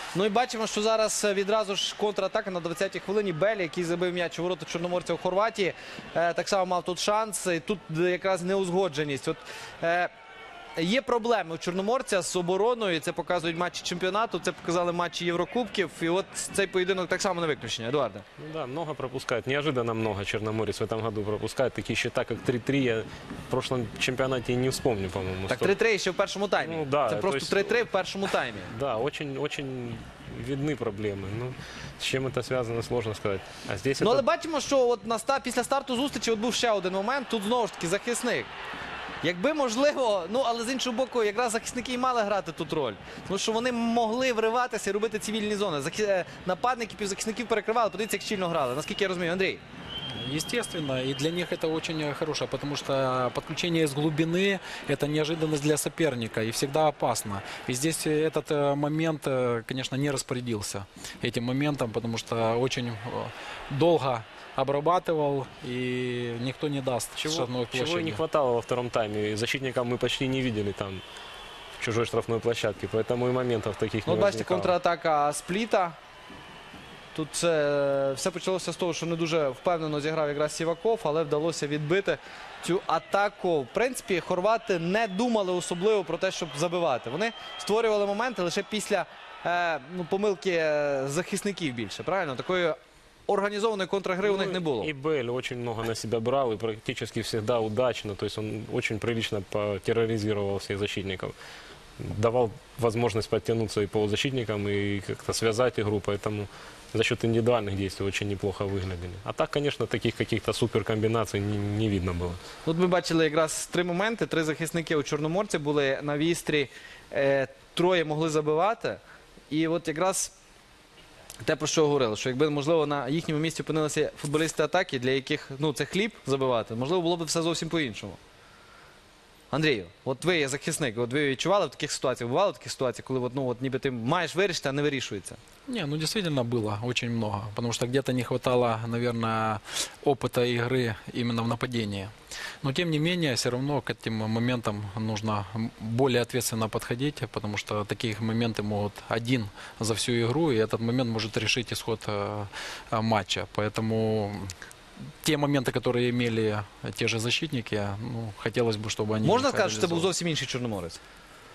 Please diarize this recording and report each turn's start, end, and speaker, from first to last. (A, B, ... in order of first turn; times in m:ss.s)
0:00.1-0:10.1 A
0:10.8-0:18.2 A
0:18.4-0:25.7 B
0:25.5-0:28.7 A
0:26.6-0:27.8 B
0:28.7-0:34.2 B
0:34.0-0:38.5 A
0:39.2-0:49.6 A
0:50.1-1:08.2 C
1:07.2-1:11.0 B
1:11.8-1:14.7 B
1:14.0-1:16.0 A
1:17.1-1:34.9 A
1:34.2-1:41.3 B
1:42.0-1:52.4 B
1:52.6-2:00.3 A
2:01.4-2:08.2 A
2:09.5-2:15.4 A
2:15.7-2:34.5 C
2:35.2-2:40.1 C
2:39.2-2:41.0 A